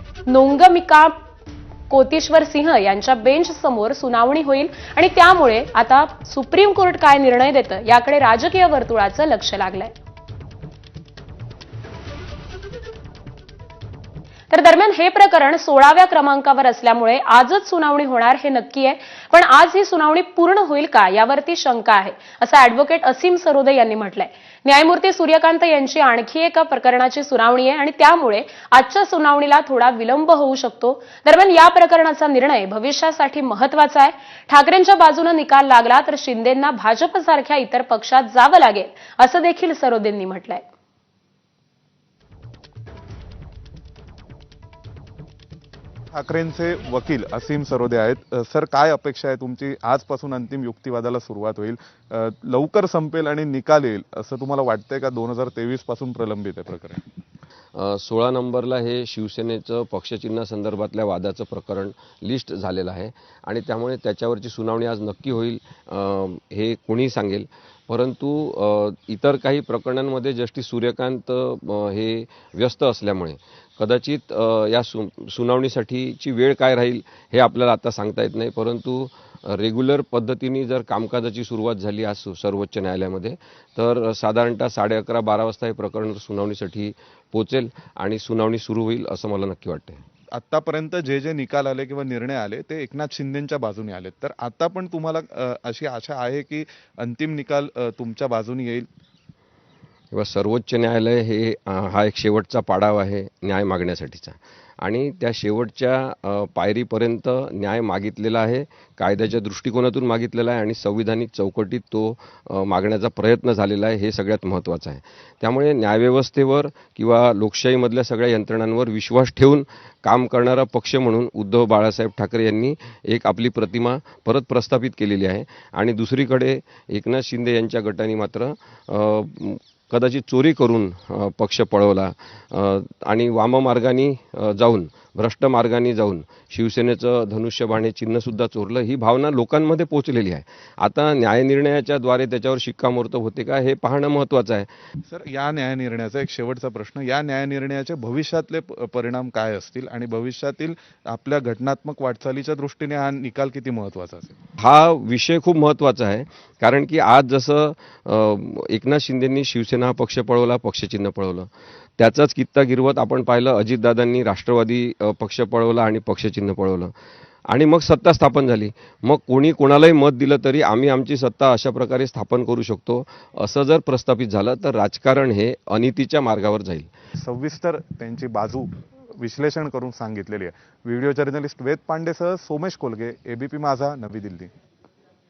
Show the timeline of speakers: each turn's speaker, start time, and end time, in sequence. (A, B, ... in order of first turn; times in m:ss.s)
0:00.3-0:01.1 A
0:01.9-0:09.9 A
0:14.5-0:40.7 A
0:46.1-0:57.0 B
0:57.7-1:30.0 C
1:30.3-1:38.9 B
1:40.1-2:24.7 C
2:25.1-2:34.4 B
2:34.6-2:46.9 C
2:47.5-2:56.9 C
2:57.2-3:04.5 B